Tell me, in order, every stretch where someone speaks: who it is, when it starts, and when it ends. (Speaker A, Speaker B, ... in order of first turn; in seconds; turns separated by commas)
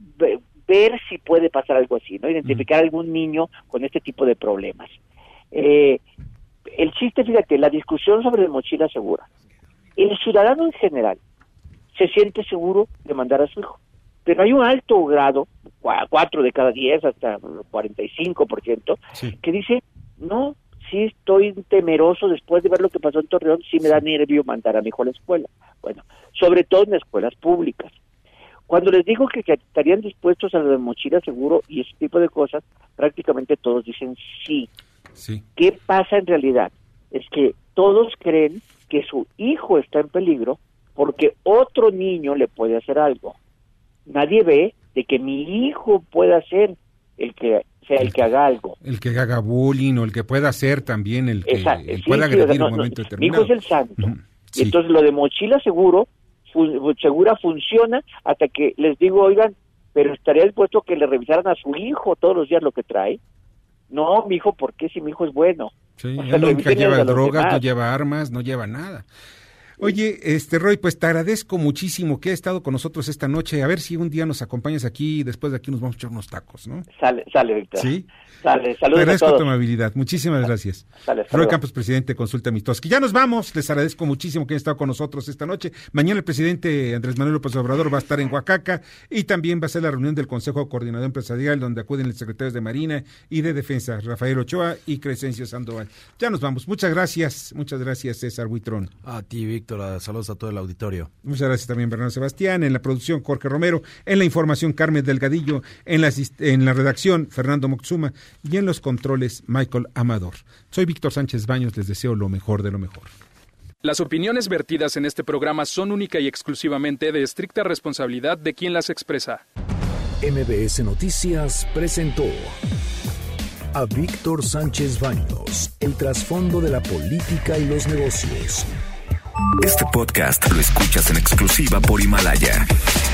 Speaker A: 0.2-4.9, Speaker A: 5.5-6.0, Speaker A: 6.7-9.3, Speaker A: 10.0-11.2, Speaker A: 11.9-27.9, Speaker A: 28.7-34.7, Speaker B: 35.2-35.4, Speaker A: 35.6-43.4, Speaker A: 44.1-48.8, Speaker B: 48.8-54.8, Speaker A: 51.5-63.2, Speaker A: 63.9-67.6, Speaker B: 66.0-69.1, Speaker B: 69.8-76.8, Speaker A: 76.9-79.5, Speaker B: 77.8-78.1, Speaker B: 78.9-98.9, Speaker A: 81.0-81.6, Speaker C: 99.0-101.1, Speaker B: 101.2-113.1, Speaker D: 113.8-119.4, Speaker E: 120.2-122.5, Speaker E: 123.7-128.7, Speaker F: 129.6-132.7